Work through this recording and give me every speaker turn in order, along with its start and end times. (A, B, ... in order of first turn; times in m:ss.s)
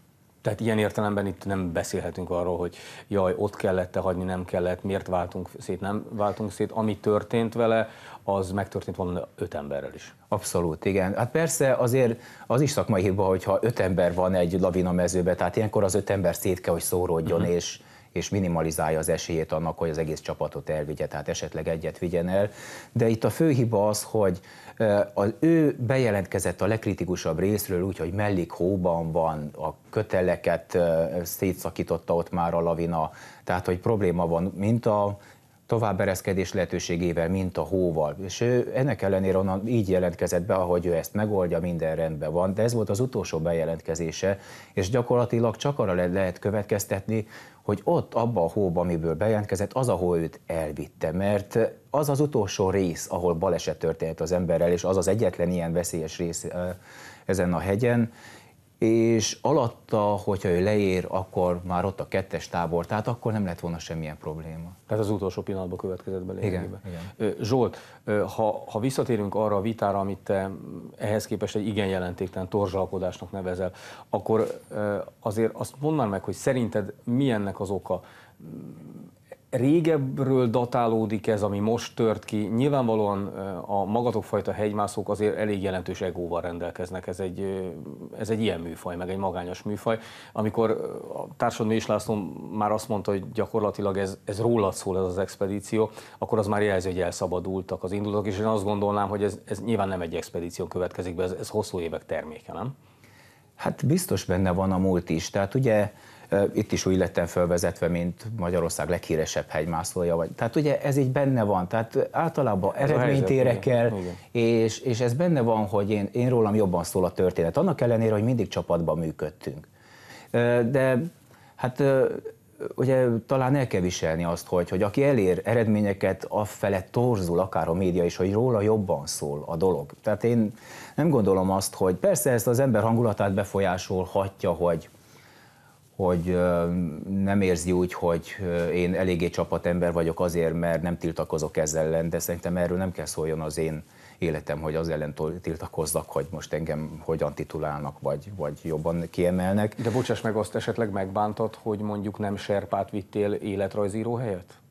0:00.4-0:10.1 A
0:10.3-0:35.2 B
0:35.7-0:58.1 B
0:58.8-1:04.8 B
1:04.9-1:42.7 A
1:06.4-1:07.1 B
1:43.6-1:59.7 B
1:52.8-1:54.2 A
2:00.3-2:01.1 B
2:01.6-2:14.9 B
2:16.0-2:29.8 B
2:29.8-2:34.6 A